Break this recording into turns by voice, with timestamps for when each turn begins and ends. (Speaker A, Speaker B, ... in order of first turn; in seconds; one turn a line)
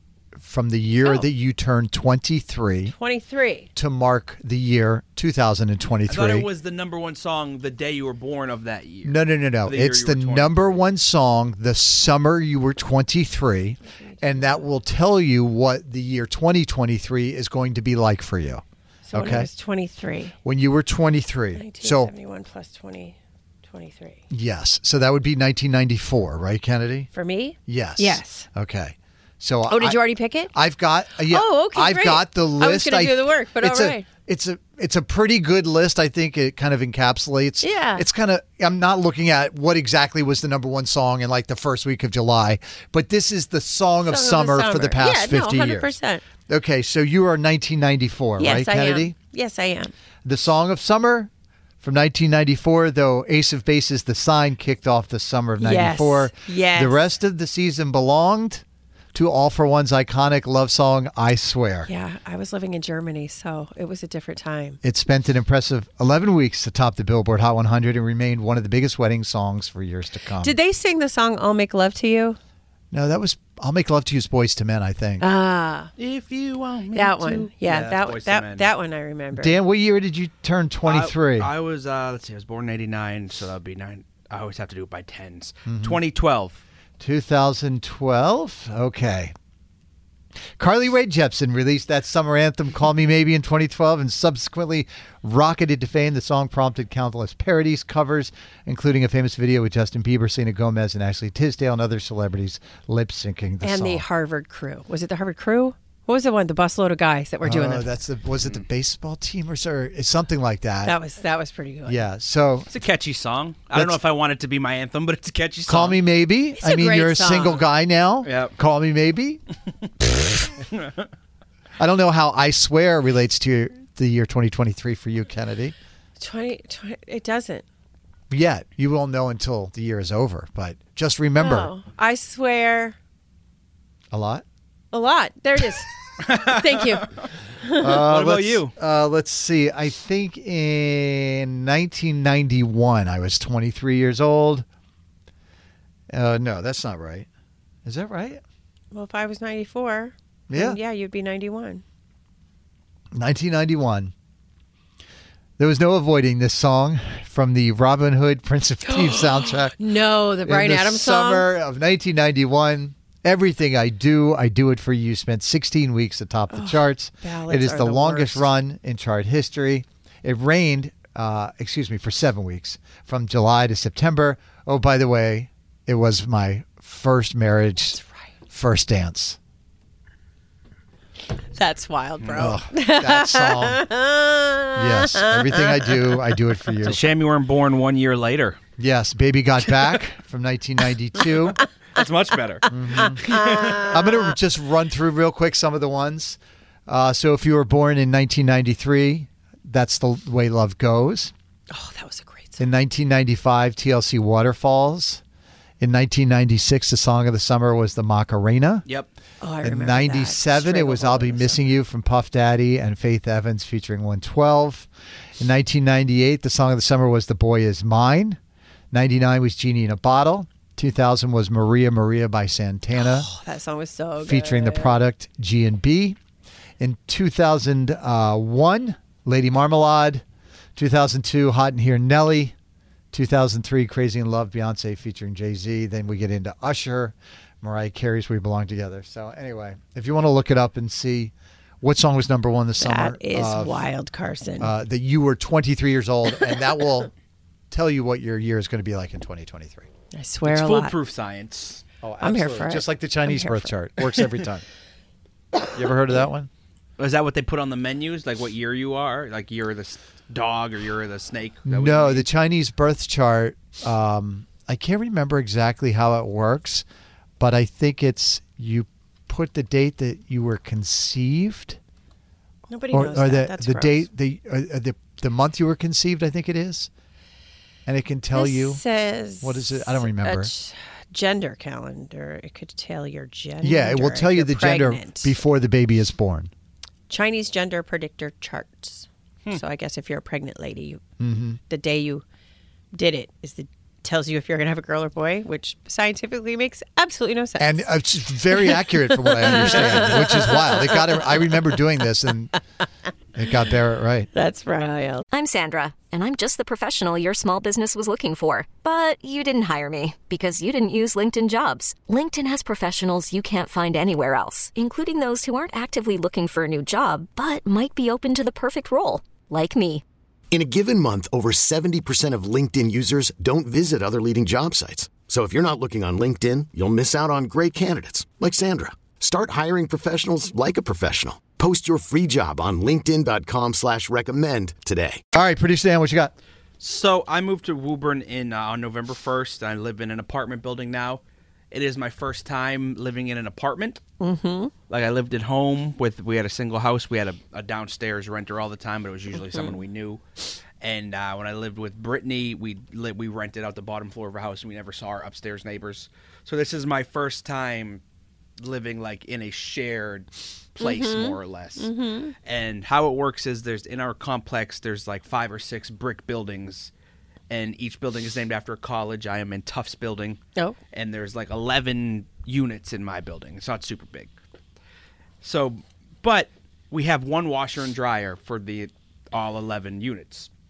Speaker A: 0.4-2.9
Speaker B: 2.9-3.7
Speaker A: 3.8-6.5
Speaker C: 6.1-10.8
Speaker A: 9.0-19.5
Speaker B: 14.0-14.6
Speaker B: 19.1-20.4
Speaker A: 20.4-22.1
Speaker B: 21.6-24.2
Speaker A: 24.3-27.1
Speaker B: 27.1-28.5
Speaker A: 27.7-49.2
Speaker B: 29.7-30.5
Speaker B: 31.3-34.0
Speaker B: 37.6-38.0
Speaker B: 44.1-46.2
Speaker B: 48.4-49.9
Speaker A: 50.2-51.3
Speaker A: 51.8-61.9
Speaker B: 55.6-57.0
Speaker B: 61.9-64.8
Speaker A: 64.8-70.6
Speaker B: 70.4-72.4
Speaker A: 72.9-75.2
Speaker B: 75.2-75.9
Speaker C: 76.0-78.7
Speaker B: 77.0-79.5
Speaker A: 79.3-81.5
Speaker C: 80.8-86.6
Speaker A: 85.7-86.0
Speaker A: 87.0-89.3
Speaker A: 90.6-104.0
Speaker B: 103.6-107.9
Speaker A: 107.4-111.0
Speaker B: 110.9-112.0
Speaker A: 111.8-112.7
Speaker C: 112.7-116.0
Speaker A: 115.7-119.4
Speaker B: 116.6-117.6
Speaker C: 118.2-118.5
Speaker C: 120.7-121.1
Speaker A: 121.8-125.8
Speaker B: 126.2-127.7
Speaker A: 128.3-131.7
Speaker B: 131.4-133.0
Speaker A: 134.1-134.4
Speaker B: 134.9-135.9
Speaker C: 136.2-137.2
Speaker B: 136.5-137.0
Speaker A: 137.8-144.7
Speaker C: 137.9-138.7
Speaker A: 146.1-147.3
Speaker A: 147.8-148.4
Speaker B: 148.9-151.8
Speaker A: 150.5-150.8
Speaker A: 153.2-154.1
Speaker A: 155.6-159.8
Speaker B: 158.9-161.5
Speaker A: 160.4-179.4
Speaker B: 166.5-168.4
Speaker B: 177.9-178.3
Speaker B: 181.5-185.8
Speaker C: 182.2-182.6
Speaker A: 182.3-183.8
Speaker A: 184.8-187.0
Speaker C: 186.8-188.6
Speaker A: 188.8-191.6
Speaker C: 191.9-194.0
Speaker A: 192.7-193.3
Speaker A: 193.8-201.3
Speaker B: 201.7-202.6
Speaker A: 202.6-205.2
Speaker A: 205.8-208.8
Speaker B: 209.4-211.6
Speaker A: 209.6-218.4
Speaker A: 218.9-223.3
Speaker B: 223.0-225.0
Speaker A: 224.2-226.2
Speaker A: 226.8-230.2
Speaker A: 230.8-232.5
Speaker A: 233.1-243.9
Speaker B: 242.8-244.7
Speaker A: 244.6-247.1
Speaker A: 247.7-249.9
Speaker B: 250.1-250.9
Speaker C: 250.4-251.8
Speaker A: 252.0-254.7
Speaker B: 252.2-253.7
Speaker A: 255.6-256.5
Speaker C: 257.0-262.3
Speaker A: 261.7-266.9
Speaker A: 267.4-271.8
Speaker B: 272.7-274.1
Speaker A: 272.9-276.9
Speaker A: 277.9-278.8
Speaker B: 278.4-285.3
Speaker A: 279.4-280.5
Speaker A: 283.6-286.5
Speaker B: 287.1-291.0
Speaker A: 291.2-291.6
Speaker B: 291.7-292.2
Speaker B: 292.9-297.9
Speaker A: 297.6-302.6
Speaker B: 298.5-301.1
Speaker A: 303.4-304.3
Speaker B: 304.3-305.2
Speaker D: 305.3-320.0
Speaker E: 320.5-335.2
Speaker A: 335.3-336.3
Speaker C: 336.8-341.2
Speaker C: 341.7-344.0
Speaker B: 344.2-344.7
Speaker C: 344.9-350.2
Speaker C: 350.8-358.0
Speaker C: 358.6-361.9
Speaker B: 360.8-362.4
Speaker C: 362.4-366.9
Speaker C: 367.5-370.4
Speaker C: 370.9-374.3
Speaker C: 375.4-380.5